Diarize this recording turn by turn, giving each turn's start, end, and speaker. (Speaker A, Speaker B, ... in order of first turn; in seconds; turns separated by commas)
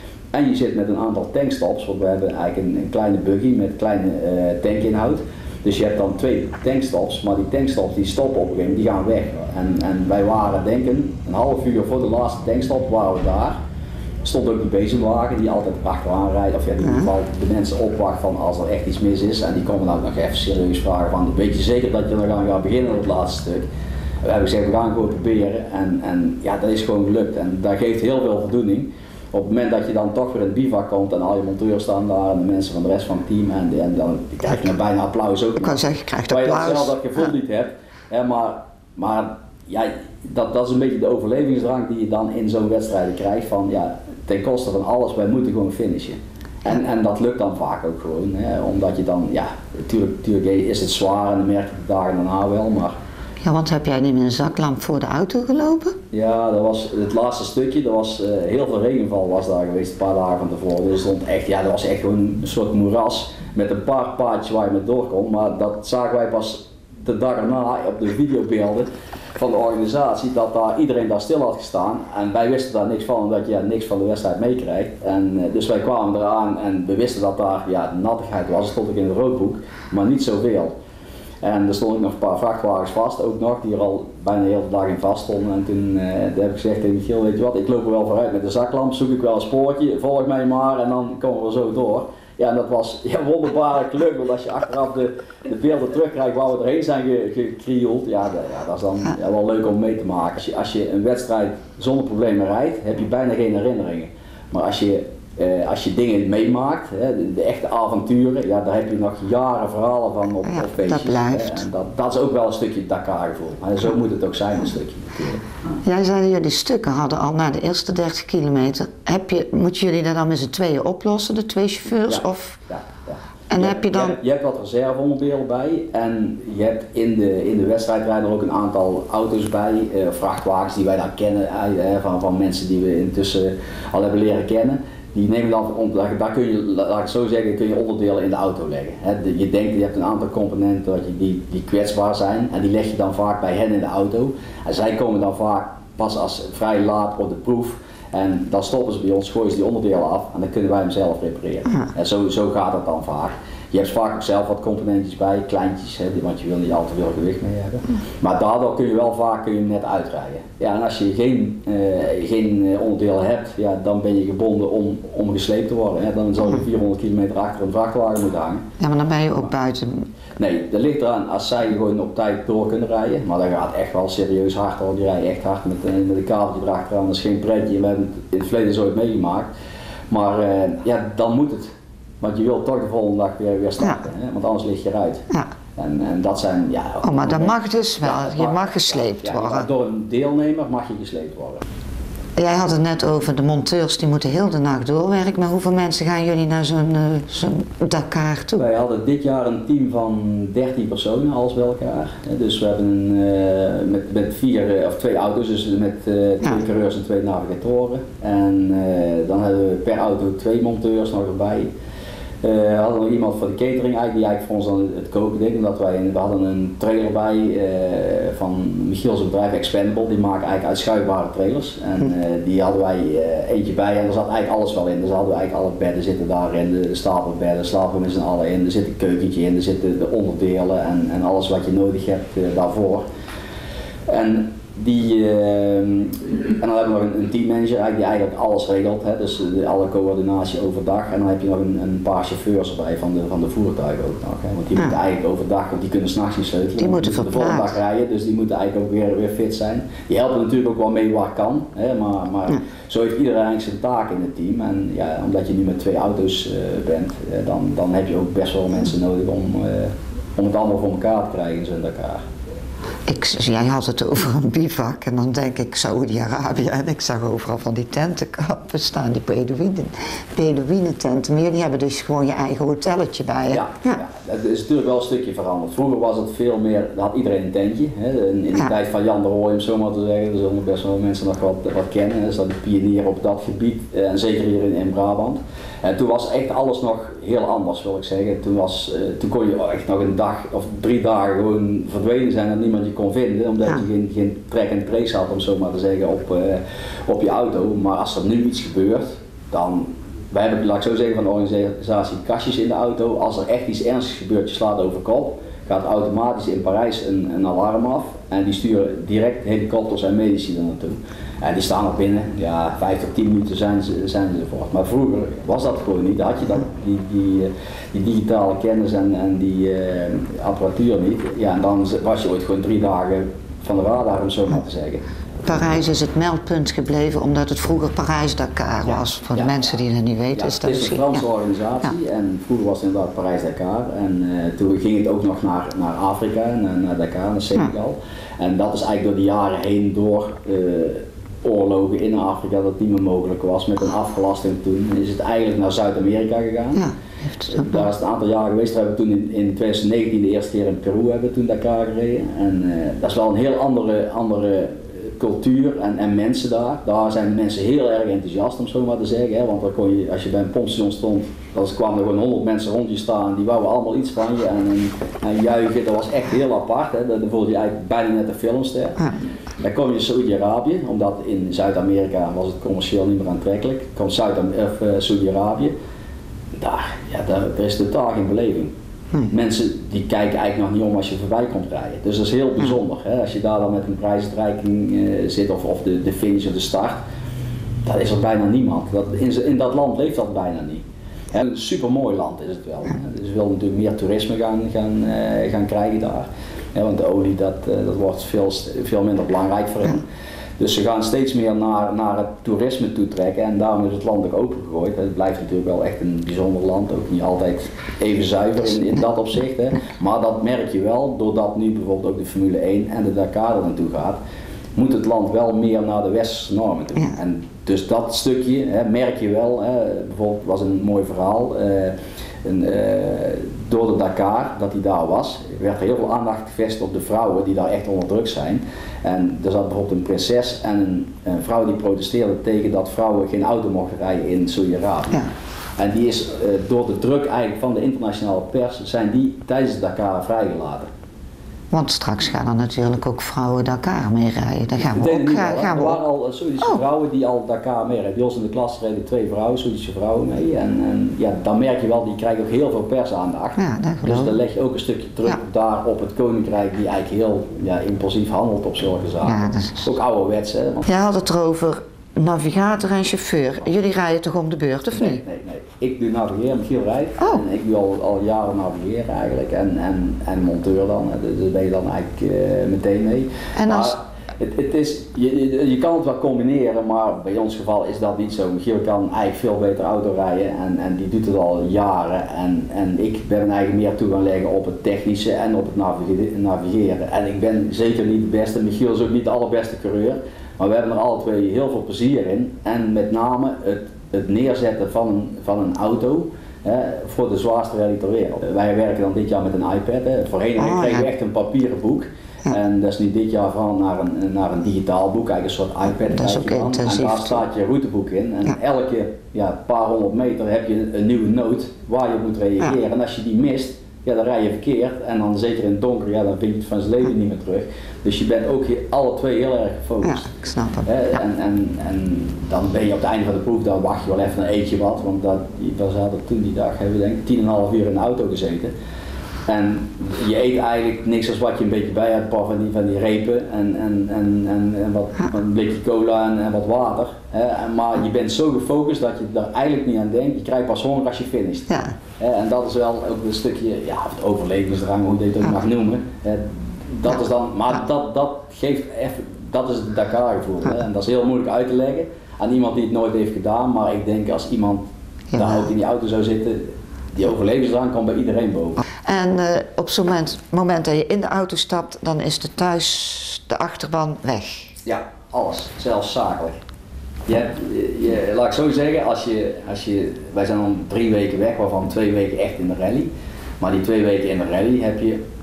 Speaker A: 0.3-13.6, Speaker A: 14.2-23.6, Speaker B: 16.8-17.1, Speaker A: 24.2-52.9, Speaker B: 35.6-36.9, Speaker B: 53.4-55.9, Speaker A: 56.1-80.7, Speaker A: 81.4-115.4, Speaker B: 110.5-111.6, Speaker B: 115.8-122.6, Speaker A: 122.1-168.6, Speaker B: 123.5-124.2, Speaker B: 168.8-170.1, Speaker A: 170.4-179.5, Speaker A: 180.1-185.2, Speaker A: 185.8-191.6, Speaker B: 187.0-189.7, Speaker B: 192.4-198.6, Speaker A: 198.6-211.7, Speaker A: 212.4-233.0, Speaker A: 234.1-262.2, Speaker B: 246.8-247.7, Speaker B: 263.1-274.0, Speaker A: 273.5-325.0, Speaker B: 325.4-331.2, Speaker A: 328.8-329.8, Speaker A: 330.3-346.8, Speaker B: 346.7-347.9, Speaker A: 347.5-369.0, Speaker A: 369.6-375.7, Speaker A: 376.6-378.7, Speaker A: 379.3-387.0, Speaker A: 387.8-400.1, Speaker A: 400.6-414.2, Speaker A: 414.8-435.2, Speaker A: 435.8-440.9, Speaker B: 441.7-446.0, Speaker A: 444.8-460.9, Speaker B: 453.6-454.4, Speaker B: 459.2-459.8, Speaker B: 460.9-465.2, Speaker A: 464.9-520.3, Speaker B: 473.6-473.9, Speaker B: 500.6-501.1, Speaker B: 506.0-507.4, Speaker B: 520.0-520.9, Speaker A: 520.8-528.7, Speaker A: 529.5-558.8, Speaker B: 559.0-564.7, Speaker A: 564.8-566.5, Speaker A: 567.3-575.2